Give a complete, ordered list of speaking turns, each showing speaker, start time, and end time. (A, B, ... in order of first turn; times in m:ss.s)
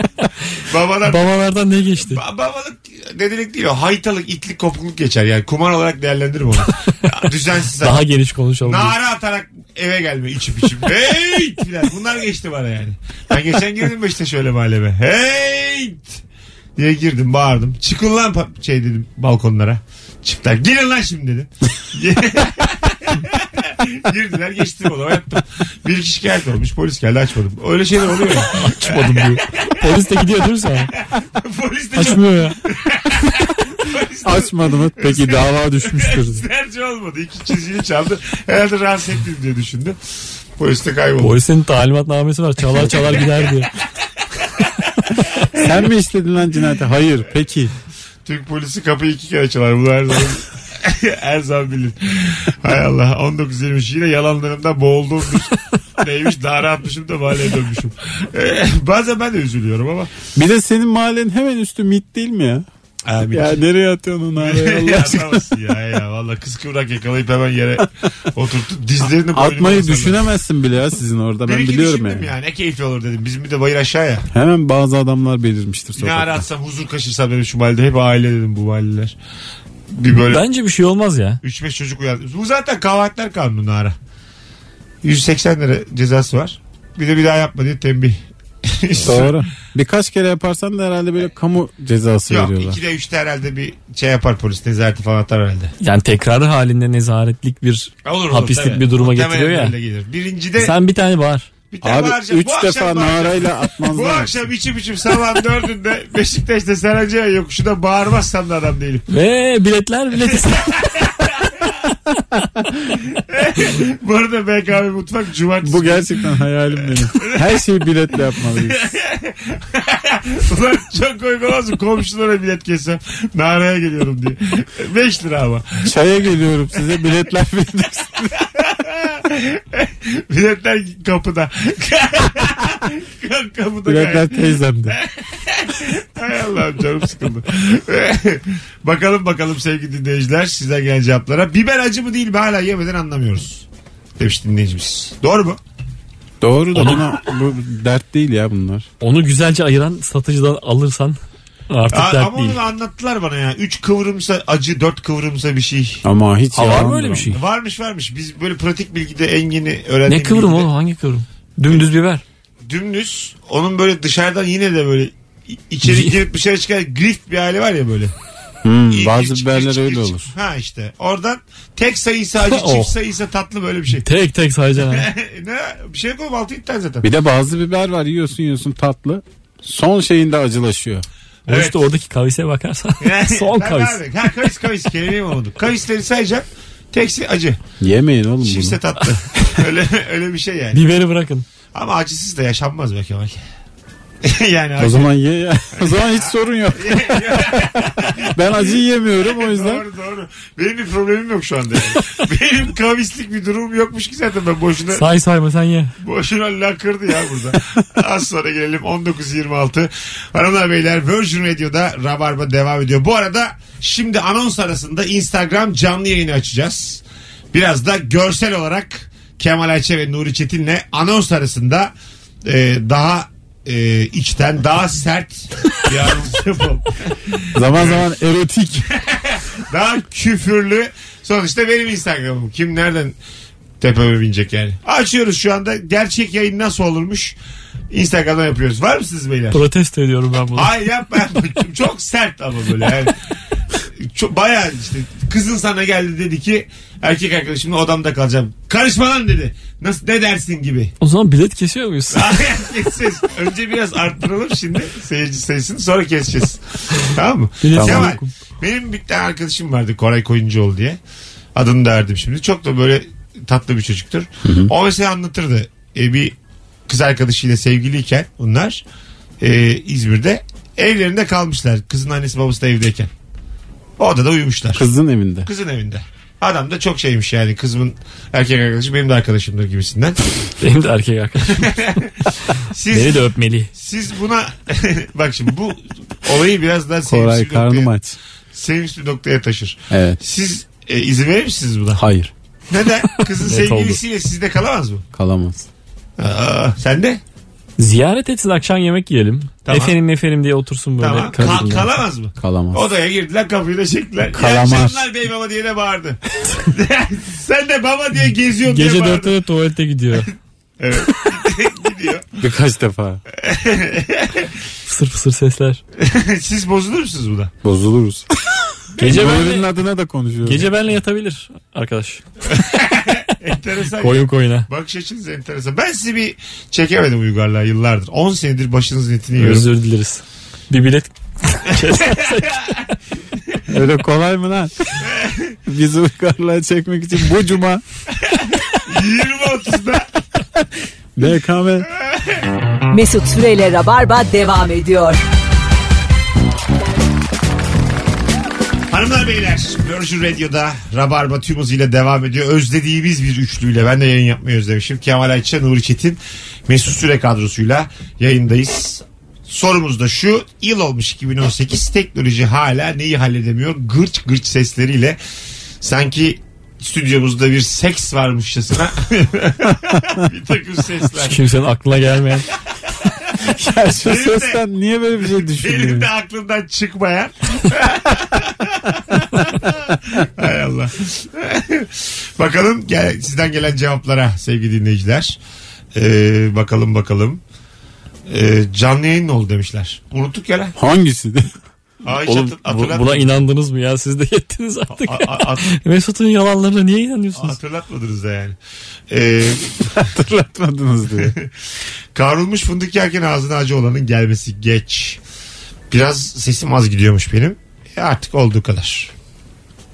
0:00.6-0:01.2 A
0:01.0-0:02.2 B
0:02.0-0:08.0 A
0:07.8-0:09.0 B
0:08.6-0:16.2 A
0:16.8-0:30.0 A
0:28.2-0:30.9 B
0:31.0-0:40.0 A
0:32.0-0:32.6 B
0:34.2-0:36.5 C
0:40.6-0:41.4 A
0:41.2-0:43.7 B
0:44.4-0:45.7 A
0:45.5-0:47.7 C
0:48.2-1:00.1 A
1:00.4-1:02.6 C
1:03.1-1:03.6 A
1:03.3-1:05.5 C
1:04.4-1:10.2 A
1:09.0-1:12.3 C
1:11.5-1:14.2 A
1:14.3-1:16.4 C
1:16.0-1:19.2 A
1:19.9-1:20.4 A
1:20.3-1:21.4 B
1:21.4-1:24.0 A
1:25.0-1:29.4 A
1:29.0-1:32.8 C
1:32.3-1:35.7 A
1:35.8-1:39.8 B
1:38.0-1:40.8 A
1:40.6-1:41.5 B
1:41.7-1:49.0 A
1:41.8-1:44.4 C
1:49.1-1:51.3 B
1:50.3-1:51.8 A
1:53.1-1:56.1 A
1:55.6-1:58.8 C
1:56.8-1:57.5 A
1:58.5-2:05.9 A
2:05.8-2:08.5 C
2:08.4-2:23.6 A
2:13.9-2:15.0 C
2:24.2-2:25.6 A
2:26.4-2:28.9 C
2:26.7-2:27.0 B
2:29.0-2:31.2 B
2:31.7-2:32.6 B
2:31.9-2:36.0 A
2:36.0-2:37.4 C
2:36.5-2:37.4 B
2:37.3-2:40.7 A
2:40.1-2:42.2 B
2:42.6-2:48.1 A
2:45.8-2:46.1 B
2:48.6-2:50.3 C
2:48.9-2:54.1 A
2:52.5-2:52.9 B
2:53.9-2:55.1 B
2:54.8-2:57.1 A
2:57.0-3:01.1 C
3:01.5-3:01.8 A
3:01.5-3:04.0 B
3:03.0-3:07.6 A
3:07.8-3:08.8 C
3:08.4-3:10.8 A
3:10.7-3:11.4 B
3:11.7-3:13.4 A
3:14.2-3:15.1 A
3:14.8-3:19.8 C
3:15.8-3:25.0 A
3:24.9-3:25.9 B
3:26.0-3:41.9 A
3:42.4-3:48.1 A
3:47.5-3:48.9 C
3:49.0-3:53.2 A
3:53.8-3:57.4 A
3:57.9-3:59.6 A
3:59.5-4:00.7 B
4:00.5-4:03.1 A
4:04.0-4:10.9 A
4:11.0-4:12.4 B
4:12.1-4:21.0 A
4:17.6-4:18.2 B
4:17.7-4:18.2 C
4:21.5-4:26.3 A
4:24.5-4:24.7 C
4:26.9-4:28.8 A
4:29.4-4:33.1 A
4:34.0-4:34.8 A
4:34.8-4:35.5 C
4:35.4-4:40.2 A
4:40.6-4:41.8 B
4:41.4-4:47.9 A
4:42.9-4:43.7 B
4:47.0-4:48.2 C
4:48.5-4:52.0 A
4:49.9-4:50.2 C
4:52.0-4:52.3 C
4:52.7-4:55.0 A
4:53.4-4:54.0 B
4:55.1-4:55.7 C
4:56.2-4:57.2 A
4:57.8-5:01.9 B
4:59.7-5:00.0 A
5:01.0-5:09.3 A
5:01.3-5:01.8 C
5:02.4-5:02.8 C
5:04.3-5:05.1 C
5:08.6-5:10.3 B
5:10.8-5:12.3 A
5:12.4-5:13.2 C
5:13.3-5:14.5 A
5:14.8-5:15.8 B
5:16.0-5:17.5 A
5:17.6-5:18.3 C
5:19.0-5:19.7 B
5:19.0-5:20.7 C
5:19.0-5:19.4 A
5:20.4-5:22.2 B
5:22.5-5:29.7 A
5:24.0-5:24.7 B
5:29.4-5:32.8 B
5:31.7-5:32.7 A
5:33.7-5:35.0 C
5:35.0-5:35.6 A
5:35.7-5:37.8 C
5:38.7-5:40.1 A
5:41.2-5:41.9 C
5:42.0-5:42.4 A
5:42.9-5:45.2 D
5:48.9-6:05.2 A
6:05.8-6:11.4 A
6:11.2-6:12.5 B
6:13.0-6:13.5 A
6:13.4-6:16.1 C
6:14.0-6:14.6 A
6:15.2-6:25.4 A
6:26.0-6:27.4 A
6:28.3-6:30.8 A
6:30.8-6:31.6 C
6:32.0-6:33.4 A
6:32.2-6:37.6 B
6:35.0-6:35.7 A
6:37.4-6:38.6 A
6:39.1-6:40.0 A
6:39.9-6:41.4 C
6:41.2-6:41.5 A
6:42.2-6:45.2 A
6:45.9-6:49.1 A